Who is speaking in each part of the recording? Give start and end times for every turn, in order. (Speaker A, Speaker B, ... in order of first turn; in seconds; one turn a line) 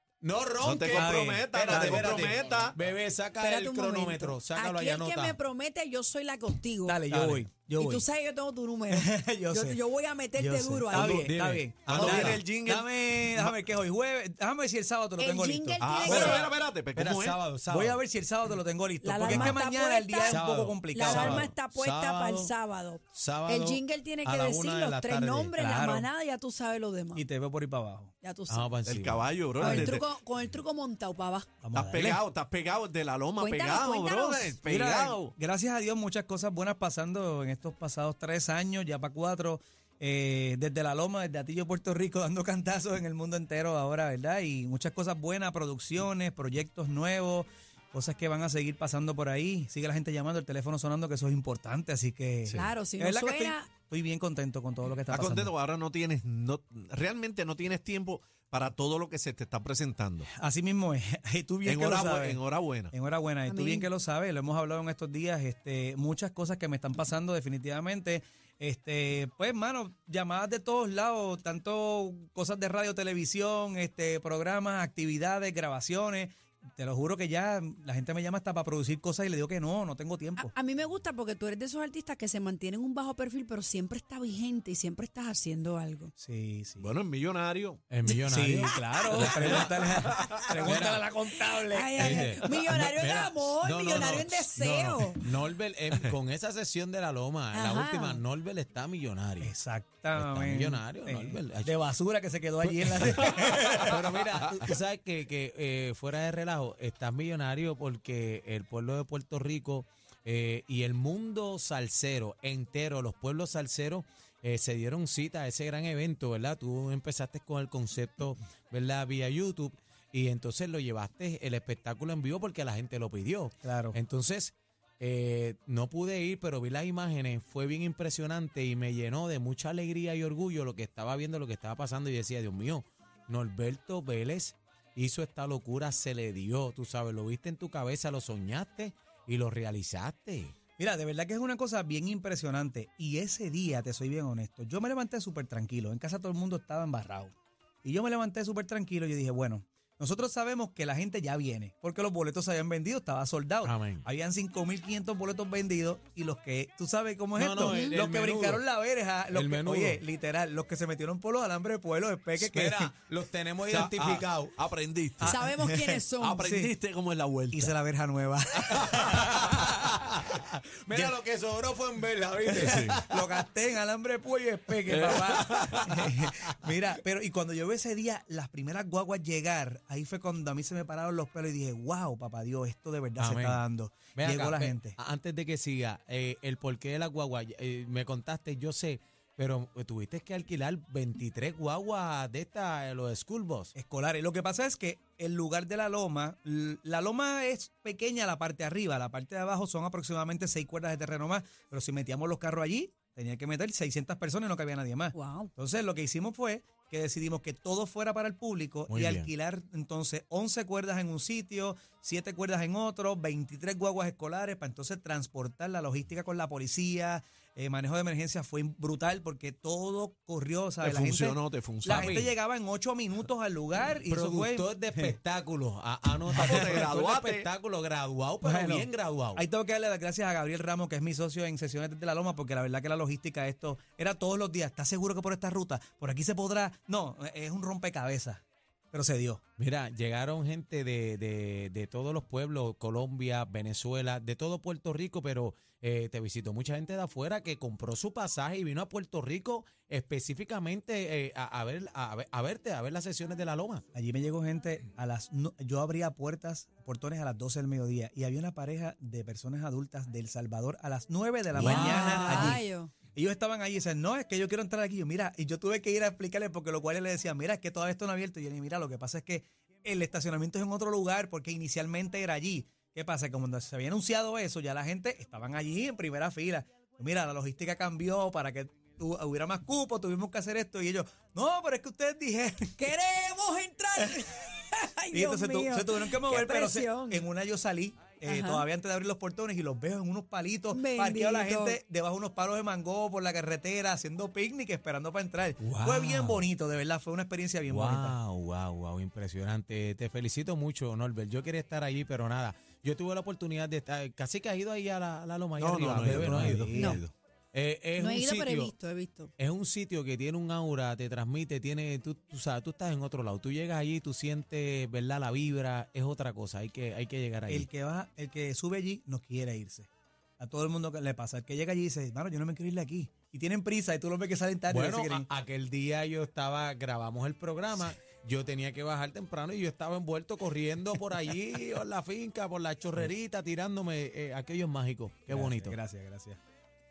Speaker A: 0.2-5.4
Speaker B: 0.6-2.8
Speaker C: 0.9-2.4
Speaker D: 3.4-11.3
Speaker C: 6.8-8.0
Speaker C: 8.9-9.8
Speaker C: 10.3-16.4
Speaker B: 10.9-11.3
Speaker A: 11.1-12.4
Speaker B: 11.9-13.7
Speaker D: 15.2-16.5
Speaker B: 15.8-17.4
Speaker A: 16.9-18.0
Speaker C: 17.7-21.5
Speaker D: 19.0-27.2
Speaker A: 19.2-19.6
Speaker A: 20.2-22.5
Speaker A: 23.1-25.5
Speaker C: 25.6-26.1
Speaker C: 27.1-28.1
Speaker D: 28.2-28.7
Speaker A: 28.5-29.3
Speaker B: 28.9-30.1
Speaker C: 29.6-29.9
Speaker D: 29.6-31.5
Speaker C: 31.6-32.2
Speaker B: 31.7-35.3
Speaker D: 33.4-34.5
Speaker C: 34.6-55.5
Speaker D: 52.5-53.7
Speaker B: 55.1-60.3
Speaker C: 60.3-80.5
Speaker B: 61.6-62.9
Speaker D: 63.5-63.9
Speaker D: 80.4-86.1
Speaker C: 86.2-86.9
Speaker B: 86.8-87.8
Speaker A: 87.9-89.7
Speaker D: 88.1-89.2
Speaker C: 88.3-92.2
Speaker B: 89.6-90.7
Speaker A: 90.6-91.0
Speaker D: 91.4-95.2
Speaker A: 92.0-99.5
Speaker C: 94.6-95.0
Speaker D: 97.5-98.2
Speaker C: 99.4-104.7
Speaker A: 100.2-101.7
Speaker A: 102.6-103.3
Speaker B: 103.0-104.7
Speaker A: 103.8-140.5
Speaker C: 123.6-124.0
Speaker C: 140.8-147.3
Speaker C: 147.8-162.9
Speaker A: 153.6-154.0
Speaker A: 157.3-158.6
Speaker D: 157.6-158.0
Speaker A: 159.3-160.0
Speaker A: 162.4-164.6
Speaker B: 163.7-165.7
Speaker C: 165.2-166.7
Speaker D: 165.2-166.5
Speaker B: 166.2-167.7
Speaker C: 167.5-169.6
Speaker A: 168.8-173.4
Speaker C: 172.5-185.0
Speaker B: 172.6-173.0
Speaker B: 174.9-176.0
Speaker A: 183.2-193.7
Speaker C: 193.7-225.2
Speaker D: 205.1-205.5
Speaker A: 208.9-209.3
Speaker B: 220.8-222.2
Speaker A: 221.8-222.3
Speaker A: 224.1-229.4
Speaker C: 226.3-226.8
Speaker B: 226.3-227.5
Speaker C: 228.4-238.4
Speaker C: 238.9-239.4
Speaker A: 239.6-253.8
Speaker C: 253.9-282.9
Speaker A: 261.5-262.6
Speaker D: 261.6-262.9
Speaker D: 282.8-287.2
Speaker C: 283.9-284.3
Speaker C: 285.1-298.2
Speaker D: 288.2-288.6
Speaker D: 290.7-291.8
Speaker A: 295.6-296.4
Speaker A: 297.7-308.7
Speaker B: 305.6-307.1
Speaker C: 306.1-307.0
Speaker D: 306.7-307.0
Speaker D: 308.0-309.3
Speaker A: 309.4-317.7
Speaker C: 317.5-319.9
Speaker C: 320.4-325.3
Speaker A: 324.7-335.8
Speaker C: 335.3-336.4